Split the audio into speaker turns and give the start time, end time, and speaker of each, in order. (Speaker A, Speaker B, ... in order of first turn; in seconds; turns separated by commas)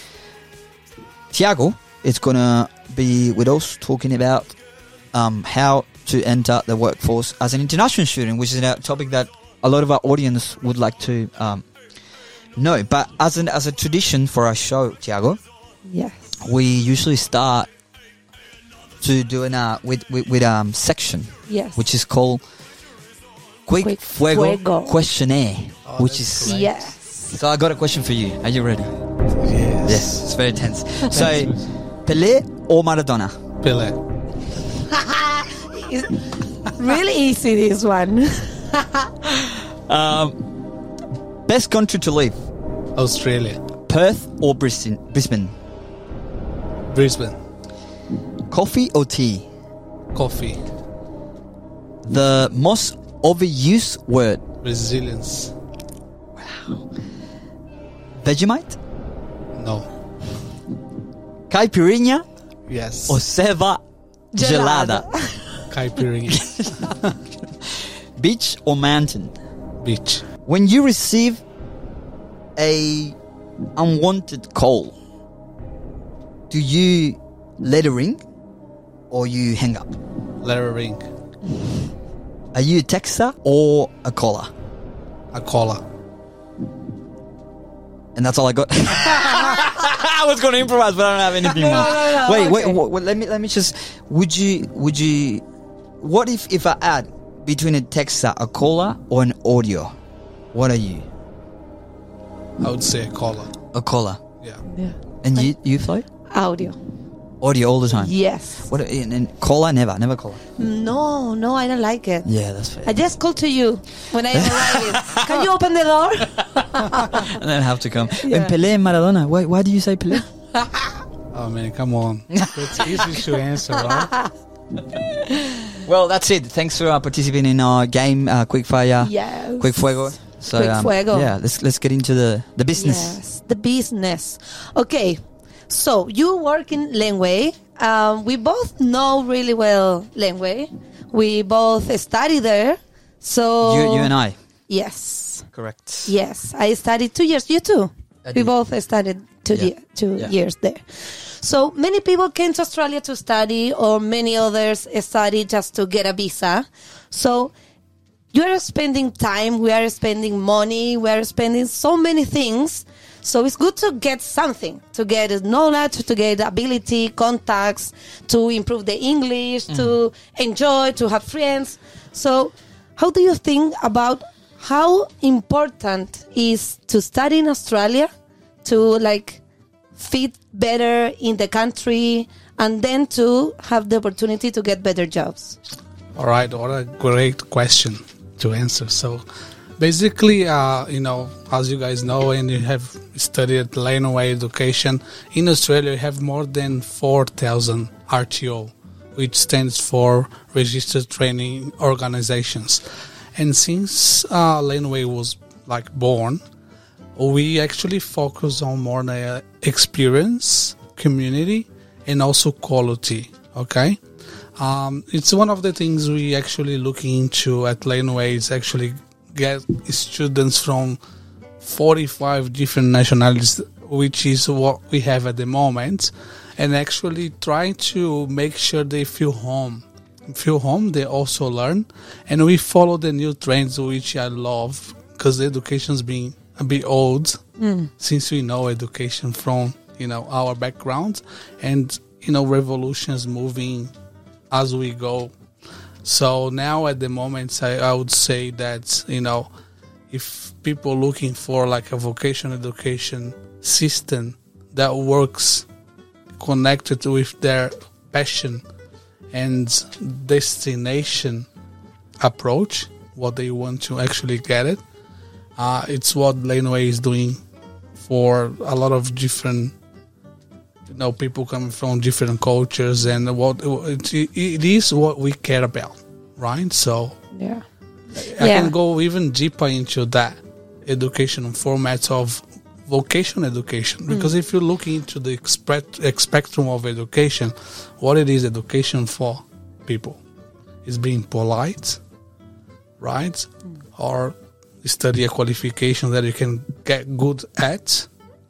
Speaker A: 1.3-4.6, Speaker A: 5.1-11.7, Speaker A: 12.6-15.4, Speaker B: 15.9-16.4, Speaker A: 16.4-17.7, Speaker A: 19.0-22.4, Speaker B: 21.5-21.8, Speaker A: 23.7-26.5, Speaker B: 23.8-25.0, Speaker C: 25.9-26.9, Speaker B: 26.4-27.3, Speaker A: 27.3-28.9, Speaker C: 29.4-30.1, Speaker A: 29.9-33.4, Speaker C: 31.1-31.7, Speaker C: 33.6-34.0, Speaker B: 34.9-39.4, Speaker A: 39.9-40.4, Speaker A: 41.5-42.4, Speaker C: 43.0-43.6, Speaker A: 43.9-45.5, Speaker C: 46.9-47.4, Speaker A: 48.5-49.5, Speaker C: 50.1-50.6, Speaker A: 52.0-54.4, Speaker C: 54.6-55.5, Speaker A: 56.4-56.8, Speaker A: 58.2-58.8, Speaker C: 59.6-59.9, Speaker A: 61.5-62.2, Speaker C: 62.7-63.2, Speaker A: 63.1-63.8, Speaker B: 64.3-65.7, Speaker A: 64.4-65.1, Speaker C: 65.7-67.2, Speaker A: 68.2-69.3, Speaker C: 69.8-70.2, Speaker A: 70.5-71.4, Speaker A: 72.6-73.2, Speaker A: 73.8-75.0, Speaker A: 76.5-78.2, Speaker A: 79.1-80.0, Speaker C: 80.4-81.1, Speaker A: 82.5-84.5, Speaker C: 85.3-85.8, Speaker A: 88.2-95.4, Speaker B: 91.4-92.8, Speaker A: 96.0-100.0, Speaker A: 100.5-101.1, Speaker C: 102.6-103.5, Speaker A: 103.7-104.2, Speaker B: 104.7-105.5, Speaker A: 105.2-106.1, Speaker B: 106.3-106.8, Speaker A: 107.4-110.4, Speaker B: 107.9-108.7, Speaker B: 110.6-112.3, Speaker A: 112.2-112.9, Speaker B: 112.8-117.4, Speaker A: 114.3-115.4, Speaker A: 117.1-120.3, Speaker B: 118.2-118.5, Speaker C: 121.3-124.1, Speaker A: 122.3-123.1, Speaker B: 123.8-124.3, Speaker B: 125.3-125.7, Speaker A: 125.8-133.2, Speaker B: 129.0-131.3, Speaker B: 132.8-144.1, Speaker A: 143.6-144.4, Speaker B: 144.7-145.5, Speaker A: 145.5-146.1, Speaker B: 146.1-157.5, Speaker A: 148.2-148.5, Speaker A: 149.5-150.3, Speaker B: 158.3-178.1, Speaker B: 178.7-179.4, Speaker B: 180.0-185.6, Speaker C: 186.2-189.2, Speaker C: 189.8-206.4, Speaker C: 207.2-214.0, Speaker C: 214.6-221.0, Speaker C: 221.6-237.4, Speaker B: 237.6-237.9, Speaker C: 238.0-243.9, Speaker C: 244.5-245.3, Speaker C: 246.0-249.5, Speaker C: 250.1-255.7, Speaker C: 256.4-258.6, Speaker C: 259.3-261.5, Speaker C: 262.2-264.8, Speaker C: 265.6-267.4, Speaker C: 268.0-269.7, Speaker C: 270.9-277.2, Speaker B: 277.3-277.6, Speaker C: 278.1-290.2, Speaker B: 278.4-278.7, Speaker C: 290.9-292.0, Speaker C: 293.0-298.1